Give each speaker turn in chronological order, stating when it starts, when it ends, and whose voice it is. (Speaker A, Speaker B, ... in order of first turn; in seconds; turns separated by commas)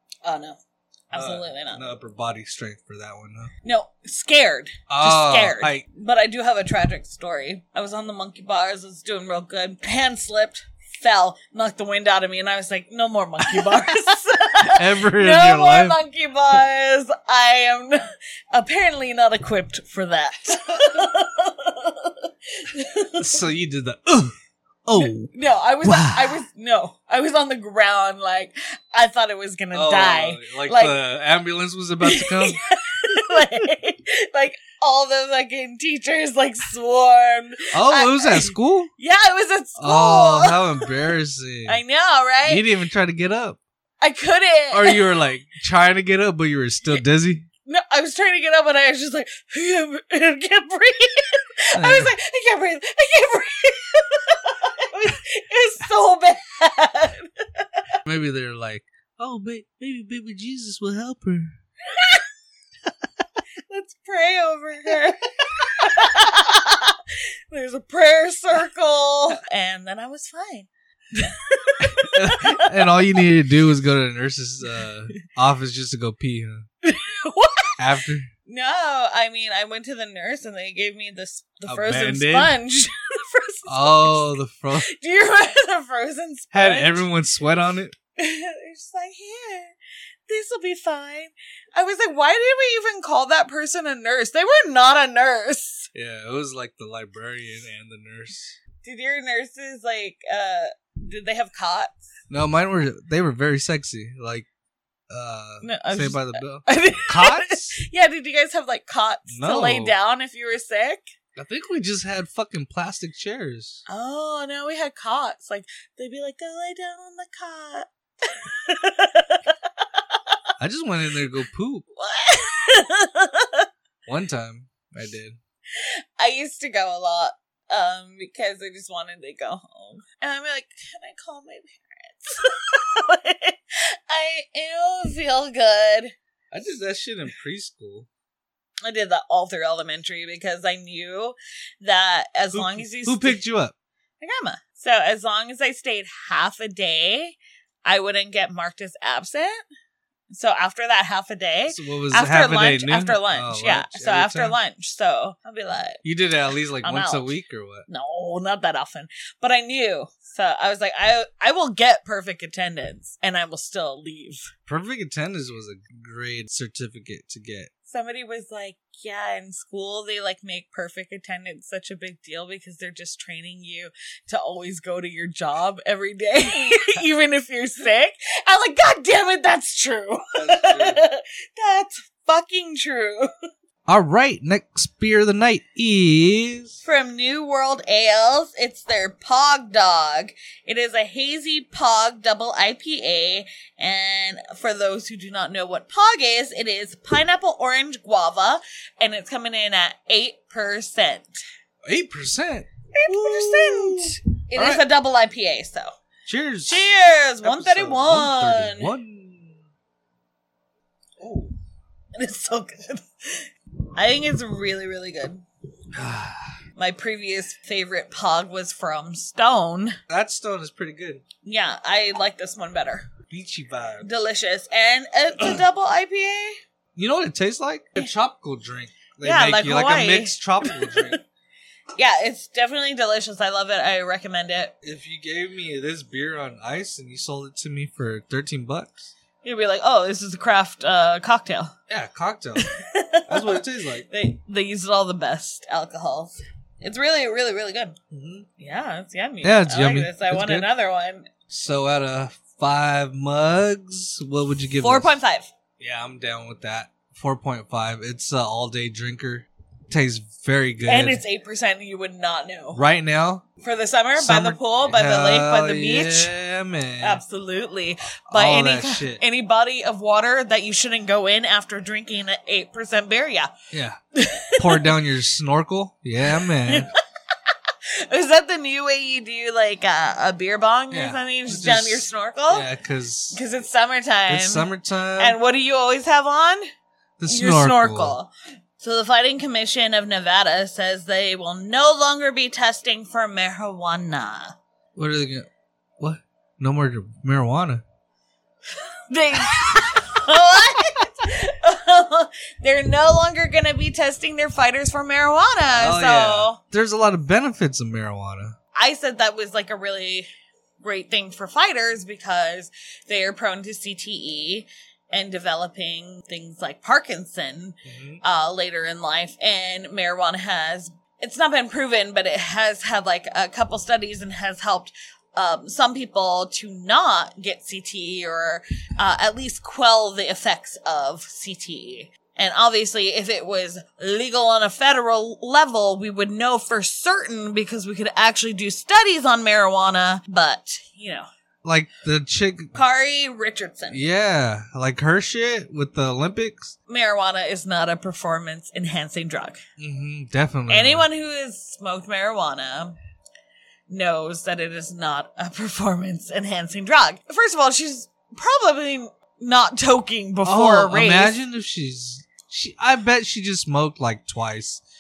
Speaker A: 0.2-0.6, Speaker A: 1.1-1.8, Speaker B: 1.1-3.5, Speaker A: 3.6-23.4, Speaker B: 4.9-5.8, Speaker B: 13.4-14.1, Speaker B: 14.6-16.0, Speaker B: 23.2-25.3, Speaker A: 25.0-31.0, Speaker B: 25.8-26.4, Speaker B: 29.7-33.6, Speaker A: 32.0-40.9, Speaker B: 37.7-38.9, Speaker B: 39.8-41.8, Speaker A: 41.7-42.7, Speaker B: 42.5-43.6, Speaker A: 44.0-45.0, Speaker B: 44.7-47.5, Speaker A: 47.7-57.9, Speaker B: 51.8-52.1, Speaker B: 58.0-61.6, Speaker A: 61.9-62.2, Speaker A: 63.7-73.1, Speaker B: 71.8-76.7, Speaker A: 76.8-77.8, Speaker B: 77.8-78.3, Speaker A: 78.5-87.1, Speaker B: 81.7-82.5, Speaker B: 83.7-84.9, Speaker B: 86.5-88.0, Speaker A: 88.2-89.7, Speaker A: 90.3-95.9, Speaker B: 95.9-98.6, Speaker A: 98.8-102.0, Speaker B: 102.3-104.5, Speaker B: 105.1-107.8, Speaker A: 105.6-111.1, Speaker B: 109.3-110.0, Speaker B: 111.4-113.8, Speaker A: 113.9-119.6, Speaker B: 120.6-121.8, Speaker A: 122.0-123.7, Speaker B: 124.1-125.4, Speaker A: 125.8-136.1, Speaker B: 136.5-138.1, Speaker A: 138.8-143.4, Speaker B: 142.5-143.8, Speaker A: 144.2-149.6, Speaker A: 150.3-156.0, Speaker B: 151.7-154.6, Speaker B: 156.0-157.9, Speaker A: 156.8-157.3, Speaker A: 157.9-164.5, Speaker B: 164.7-167.7, Speaker A: 167.9-183.3, Speaker B: 180.3-181.0, Speaker B: 183.9-186.8, Speaker A: 186.8-201.4, Speaker B: 201.9-204.8, Speaker A: 202.9-205.9, Speaker B: 206.3-206.9, Speaker A: 206.7-208.9, Speaker B: 207.4-209.6, Speaker B: 211.2-211.5, Speaker A: 212.2-215.4, Speaker B: 215.9-216.6, Speaker A: 216.8-220.0, Speaker B: 220.1-221.2, Speaker A: 221.4-223.1, Speaker B: 223.3-224.2, Speaker A: 224.0-226.6, Speaker B: 226.9-231.2, Speaker A: 229.2-231.2, Speaker A: 232.0-234.7, Speaker B: 234.8-239.1, Speaker A: 239.4-241.7, Speaker B: 241.9-242.7, Speaker A: 242.6-248.0, Speaker B: 243.3-244.1, Speaker B: 248.1-248.5, Speaker A: 248.6-251.3, Speaker B: 249.4-250.7, Speaker B: 251.5-255.1, Speaker A: 254.8-255.5, Speaker B: 255.8-261.2, Speaker A: 260.9-262.8, Speaker B: 262.7-263.5, Speaker A: 263.6-266.3, Speaker B: 264.2-267.2, Speaker A: 267.0-273.5, Speaker B: 268.3-269.2, Speaker B: 273.7-274.0, Speaker A: 274.1-274.9, Speaker B: 274.6-276.9, Speaker A: 276.3-276.9, Speaker A: 277.5-282.7, Speaker B: 280.9-283.4, Speaker A: 283.3-286.6, Speaker B: 284.3-285.4, Speaker B: 287.2-288.2, Speaker A: 287.3-294.6, Speaker B: 294.9-295.5, Speaker B: 296.0-297.8, Speaker A: 299.1-306.6, Speaker B: 305.7-308.6, Speaker A: 308.7-310.3, Speaker A: 310.8-341.3, Speaker B: 317.9-318.2, Speaker B: 341.6-342.8, Speaker A: 342.8-344.0, Speaker B: 343.9-346.7, Speaker A: 346.9-349.6, Speaker B: 349.8-351.1, Speaker A: 350.7-353.0, Speaker A: 353.9-361.4, Speaker B: 360.4-364.8